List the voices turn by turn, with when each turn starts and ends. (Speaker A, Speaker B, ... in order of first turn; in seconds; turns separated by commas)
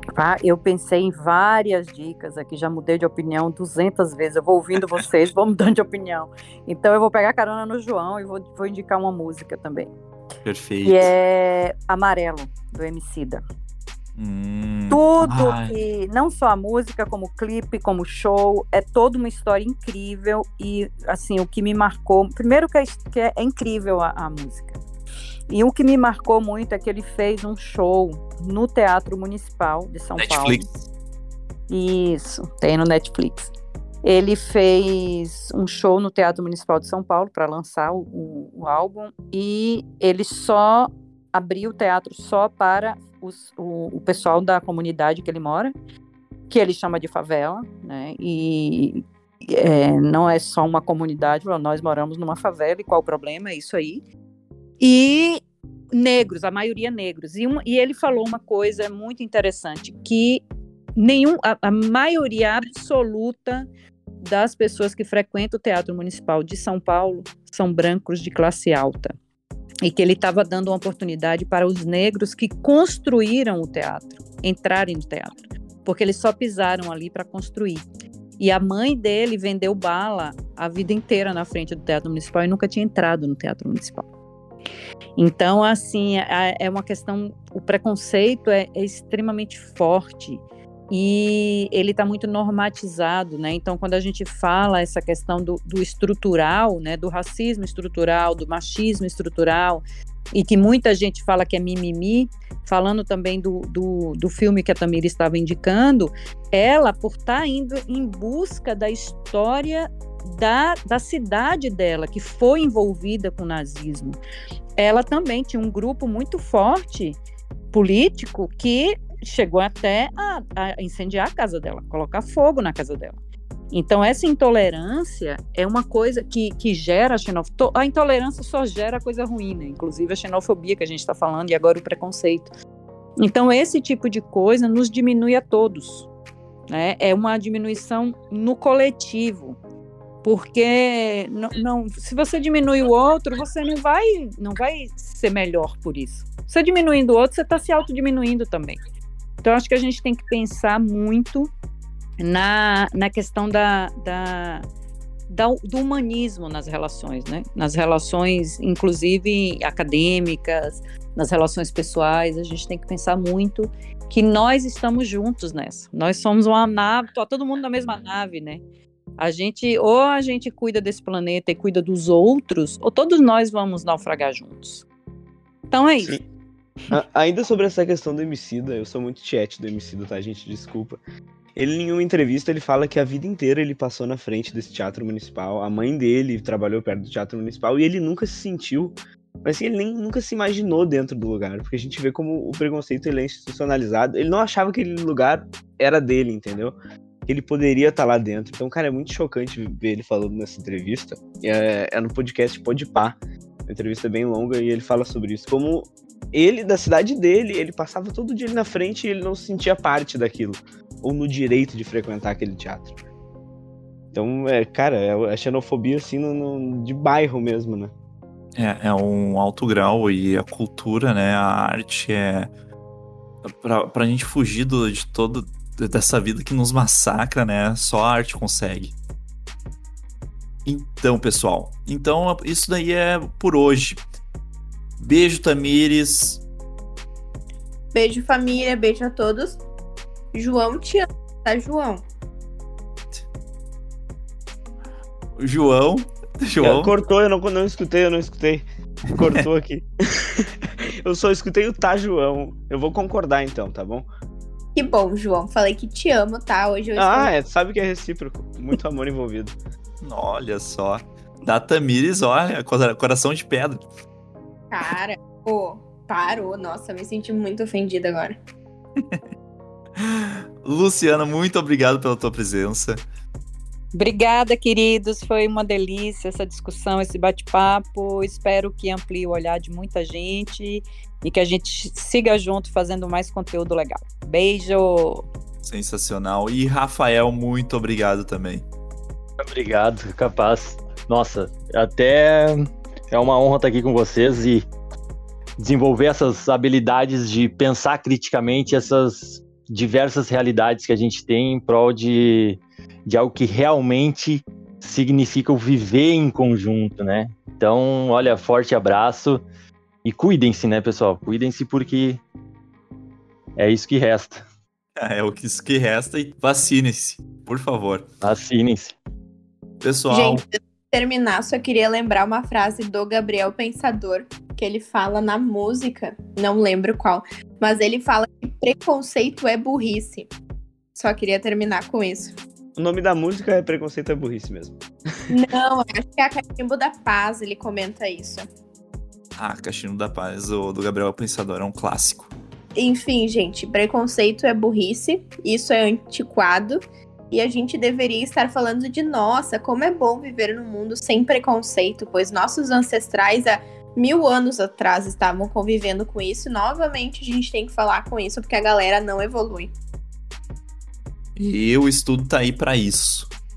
Speaker A: 0.1-9.9, Speaker B: 10.4-11.1, Speaker A: 10.8-13.4, Speaker B: 14.2-15.7, Speaker A: 14.9-24.8, Speaker A: 25.5-30.6, Speaker B: 30.2-30.7, Speaker A: 31.7-33.5, Speaker A: 34.0-45.7, Speaker A: 46.5-54.0, Speaker A: 54.8-55.4, Speaker A: 55.9-60.4, Speaker A: 61.0-63.7, Speaker A: 64.2-69.1, Speaker A: 69.8-77.8, Speaker A: 78.4-84.0, Speaker A: 85.2-99.8, Speaker A: 100.3-114.2, Speaker A: 114.8-117.2, Speaker A: 117.7-123.2, Speaker A: 123.7-132.5, Speaker A: 133.2-136.1, Speaker A: 136.7-139.6, Speaker A: 140.2-148.8, Speaker A: 149.4-151.5, Speaker A: 152.2-154.6, Speaker A: 155.3-168.6, Speaker A: 169.2-174.8, Speaker A: 175.7-176.2, Speaker C: 176.9-181.0, Speaker C: 181.6-196.8, Speaker C: 197.3-212.9, Speaker C: 214.1-217.9, Speaker B: 218.6-222.5, Speaker B: 223.4-228.9, Speaker B: 230.6-234.0, Speaker B: 235.0-236.4, Speaker D: 237.9-239.6, Speaker D: 240.3-242.0, Speaker B: 245.4-246.9, Speaker C: 246.6-250.5, Speaker C: 251.0-254.1, Speaker D: 254.7-257.3, Speaker C: 256.9-259.6, Speaker B: 260.0-263.9, Speaker D: 264.7-268.4, Speaker B: 270.0-273.0, Speaker A: 273.9-285.2, Speaker B: 285.6-288.6, Speaker E: 289.4-294.7, Speaker E: 295.6-309.4, Speaker E: 310.0-312.2, Speaker E: 313.6-314.4, Speaker B: 315.0-318.1, Speaker E: 318.2-318.9, Speaker B: 319.8-320.4, Speaker D: 320.1-330.3, Speaker D: 330.9-332.4, Speaker C: 332.8-335.3, Speaker D: 335.3-338.4, Speaker B: 339.4-342.3, Speaker D: 342.7-359.7, Speaker B: 361.4-363.3